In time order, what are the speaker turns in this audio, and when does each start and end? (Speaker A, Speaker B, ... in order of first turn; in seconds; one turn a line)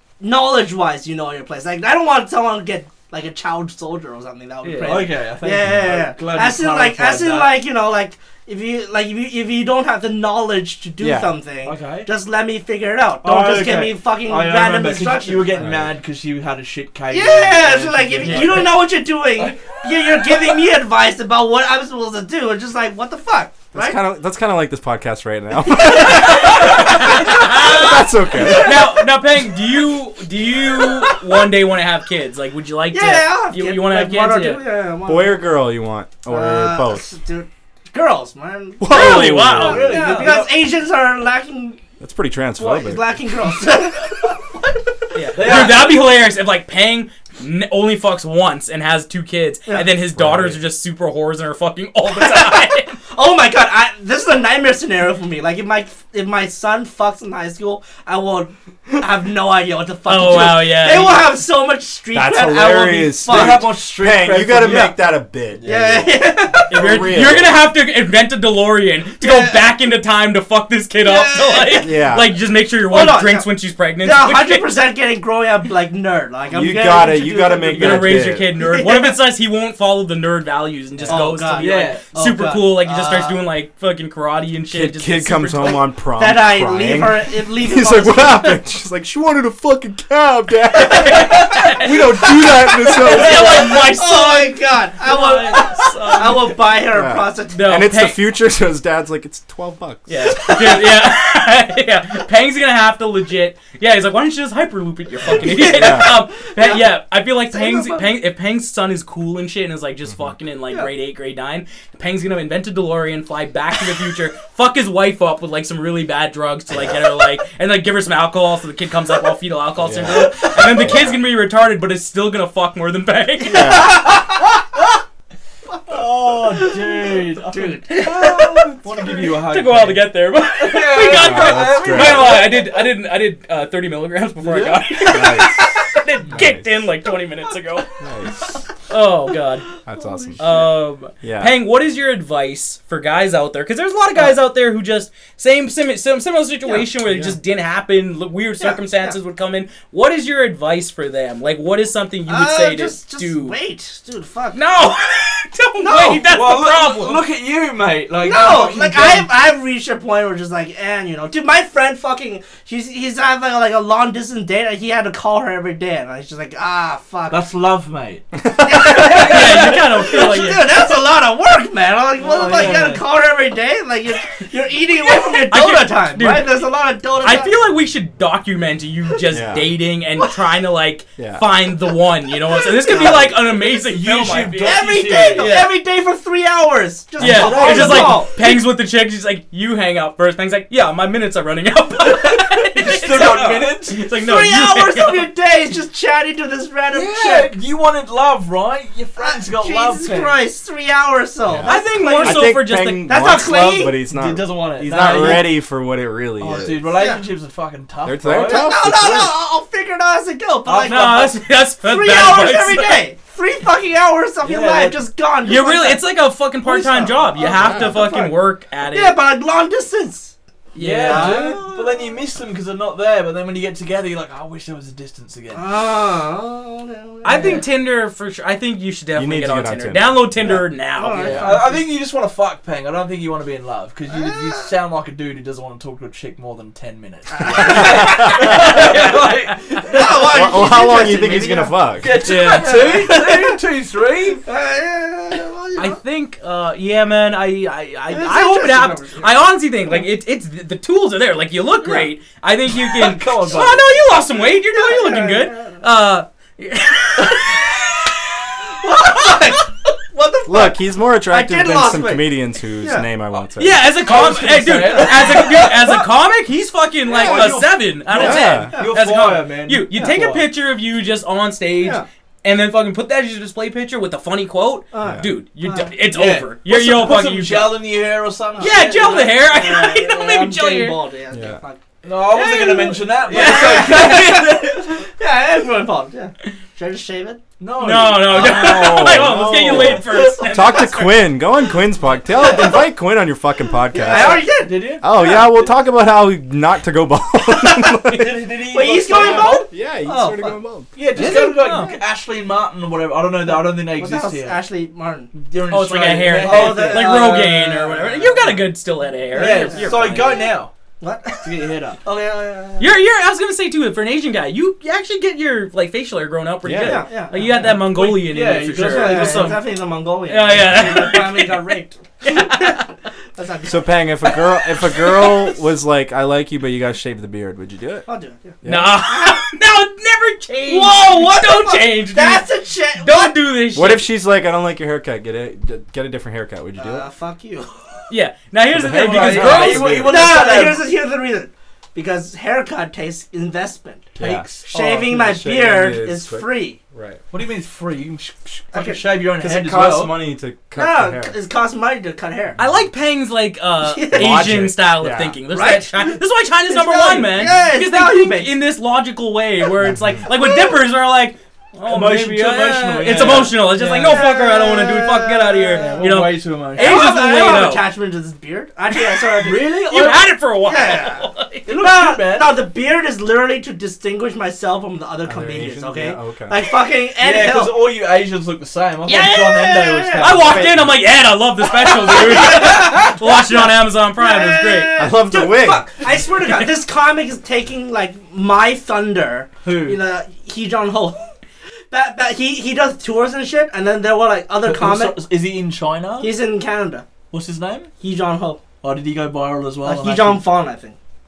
Speaker A: 0.2-15.7
Speaker B: 4.6-5.1
Speaker C: 4.8-7.6
Speaker D: 11.0-11.3
Speaker C: 11.7-12.1
Speaker C: 13.2-20.3
Speaker D: 15.6-15.9
Speaker A: 17.1-24.0
Speaker B: 18.2-18.6
Speaker D: 23.7-28.9
Speaker A: 25.7-29.0
Speaker B: 26.0-34.6
Speaker A: 30.8-31.2
Speaker A: 32.9-35.4
Speaker D: 35.0-37.0
Speaker A: 36.3-41.8
Speaker D: 38.8-40.0
Speaker B: 38.9-40.3
Speaker C: 39.6-40.5
Speaker D: 42.0-43.2
Speaker A: 42.6-45.7
Speaker B: 45.1-53.0
Speaker C: 45.4-46.1
Speaker D: 50.1-50.6
Speaker A: 52.2-63.7
Speaker B: 60.1-61.3
Speaker D: 62.1-65.8
Speaker C: 63.2-65.0
Speaker A: 64.6-64.9
Speaker C: 65.6-66.3
Speaker A: 65.6-67.2
Speaker D: 66.7-67.6
Speaker B: 66.7-74.7
Speaker A: 69.2-69.7
Speaker A: 71.0-71.9
Speaker D: 71.7-72.3
Speaker A: 72.9-73.5
Speaker A: 74.0-79.2
Speaker D: 76.5-78.5
Speaker B: 77.7-85.8
Speaker D: 81.0-81.3
Speaker A: 81.1-83.4
Speaker C: 81.5-82.0
Speaker D: 84.7-93.8
Speaker A: 86.2-88.6
Speaker B: 90.8-92.0
Speaker A: 90.9-91.6
Speaker A: 92.1-97.7
Speaker B: 92.8-96.6
Speaker D: 96.9-100.4
Speaker B: 97.5-98.2
Speaker B: 100.1-123.9
Speaker A: 100.4-100.8
Speaker A: 105.3-106.9
Speaker D: 105.5-106.2
Speaker A: 107.5-108.1
Speaker D: 116.7-117.0
Speaker D: 119.8-121.2
Speaker D: 123.5-124.1
Speaker A: 123.5-124.5
Speaker A: 125.9-128.8
Speaker C: 125.9-132.7
Speaker B: 127.9-137.9
Speaker D: 131.1-132.5
Speaker C: 134.4-134.9
Speaker D: 135.1-135.7
Speaker D: 136.3-136.8
Speaker D: 138.0-138.5
Speaker B: 138.9-139.7
Speaker D: 139.9-140.7
Speaker A: 140.0-140.6
Speaker B: 140.4-153.6
Speaker D: 141.2-141.6
Speaker D: 147.1-147.4
Speaker A: 148.6-149.2
Speaker A: 152.3-154.6
Speaker B: 154.5-157.2
Speaker A: 155.8-156.3
Speaker C: 156.3-159.3
Speaker A: 158.2-167.4
Speaker C: 167.3-168.3
Speaker D: 168.4-168.9
Speaker A: 168.5-177.6
Speaker C: 168.9-170.1
Speaker B: 169.1-170.8
Speaker C: 172.2-173.0
Speaker B: 175.1-176.6
Speaker B: 177.2-185.7
Speaker D: 179.3-179.7
Speaker D: 181.2-181.5
Speaker A: 182.5-183.6
Speaker C: 183.1-185.6
Speaker A: 184.6-188.6
Speaker C: 187.2-188.3
Speaker B: 187.2-195.3
Speaker C: 192.1-194.1
Speaker A: 193.1-197.6
Speaker C: 196.9-200.4
Speaker A: 199.2-204.0
Speaker D: 201.5-206.9
Speaker B: 201.6-203.1
Speaker C: 204.1-205.6
Speaker C: 206.4-208.8
Speaker A: 206.9-207.2
Speaker D: 208.0-209.3
Speaker A: 208.3-216.0
Speaker C: 210.7-211.4
Speaker B: 210.8-213.1
Speaker C: 214.4-215.0
Speaker B: 215.4-219.2
Speaker A: 216.6-220.3
Speaker D: 217.4-218.0
Speaker B: 220.7-221.5
Speaker C: 220.8-225.7
Speaker A: 221.0-222.2
Speaker A: 225.5-227.7
Speaker B: 227.2-231.6
Speaker D: 229.2-230.6
Speaker A: 230.4-231.8
Speaker C: 231.2-244.4
Speaker D: 231.2-231.5
Speaker A: 234.1-234.7
Speaker A: 237.3-239.1
Speaker D: 237.6-238.7
Speaker B: 238.1-239.6
Speaker A: 239.8-241.8
Speaker D: 240.2-243.0
Speaker B: 242.2-243.0
Speaker A: 242.6-243.6
Speaker A: 244.4-246.0
Speaker B: 245.8-258.1
Speaker A: 248.1-249.5
Speaker C: 252.8-254.0
Speaker A: 254.5-255.8
Speaker A: 258.8-263.1
Speaker D: 260.5-263.9
Speaker B: 263.6-277.8
Speaker C: 263.9-265.8
Speaker A: 264.8-265.9
Speaker C: 267.1-270.5
Speaker A: 267.2-267.5
Speaker D: 268.1-268.8
Speaker A: 274.9-275.9
Speaker D: 275.0-275.3
Speaker C: 276.1-279.3
Speaker A: 278.6-281.8
Speaker B: 278.6-281.0
Speaker D: 281.3-281.6
Speaker C: 282.0-284.9
Speaker B: 282.3-284.2
Speaker A: 282.4-287.4
Speaker C: 287.6-290.3
Speaker B: 287.8-291.3
Speaker D: 288.3-294.5
Speaker A: 292.4-292.8
Speaker A: 293.9-295.6
Speaker C: 294.0-295.1
Speaker D: 295.0-298.4
Speaker C: 298.1-299.7
Speaker A: 298.7-300.6
Speaker D: 299.1-300.9
Speaker C: 300.9-304.6
Speaker B: 301.1-301.9
Speaker A: 301.1-302.0
Speaker A: 303.9-305.3
Speaker C: 305.3-308.2
Speaker B: 305.7-310.5
Speaker A: 306.3-308.6
Speaker A: 309.3-310.5
Speaker C: 309.3-310.7
Speaker A: 311.0-311.5
Speaker C: 311.4-312.0
Speaker A: 312.0-312.9
Speaker B: 312.8-319.7
Speaker D: 316.6-317.1
Speaker A: 316.8-317.7
Speaker C: 317.4-319.6
Speaker A: 318.7-322.8
Speaker B: 320.3-322.9
Speaker D: 320.6-321.0
Speaker A: 323.4-324.0
Speaker D: 323.7-328.1
Speaker B: 324.9-325.3
Speaker A: 328.1-329.4
Speaker D: 328.6-329.0
Speaker B: 328.6-332.5
Speaker A: 330.7-333.4
Speaker B: 333.0-334.1
Speaker D: 333.7-337.1
Speaker A: 336.8-338.1
Speaker B: 338.1-340.1
Speaker D: 338.7-340.3
Speaker C: 339.0-340.9
Speaker A: 339.2-344.1
Speaker C: 344.2-345.1
Speaker D: 344.2-347.2
Speaker A: 344.7-346.8
Speaker C: 347.3-350.2
Speaker A: 348.7-349.0
Speaker D: 349.4-351.4
Speaker A: 350.8-352.6
Speaker B: 352.6-367.9
Speaker A: 353.8-354.5
Speaker D: 354.1-355.4
Speaker A: 355.5-358.5
Speaker D: 359.8-360.2
Speaker A: 360.3-360.8
Speaker C: 361.9-364.3
Speaker A: 363.2-369.8
Speaker C: 365.8-367.3
Speaker C: 369.4-370.3
Speaker B: 369.8-371.7
Speaker A: 370.6-377.7
Speaker C: 371.7-372.6
Speaker D: 375.2-376.6
Speaker C: 377.2-380.7
Speaker A: 379.1-380.7
Speaker B: 380.2-385.0
Speaker D: 380.5-380.9
Speaker A: 381.7-391.3
Speaker C: 382.4-383.0
Speaker D: 385.0-385.9
Speaker B: 386.3-386.7
Speaker C: 389.6-390.0
Speaker A: 391.9-395.2
Speaker C: 394.6-396.3
Speaker A: 396.2-397.1
Speaker C: 397.3-397.9
Speaker A: 398.0-398.6
Speaker C: 398.8-400.4
Speaker A: 399.8-401.0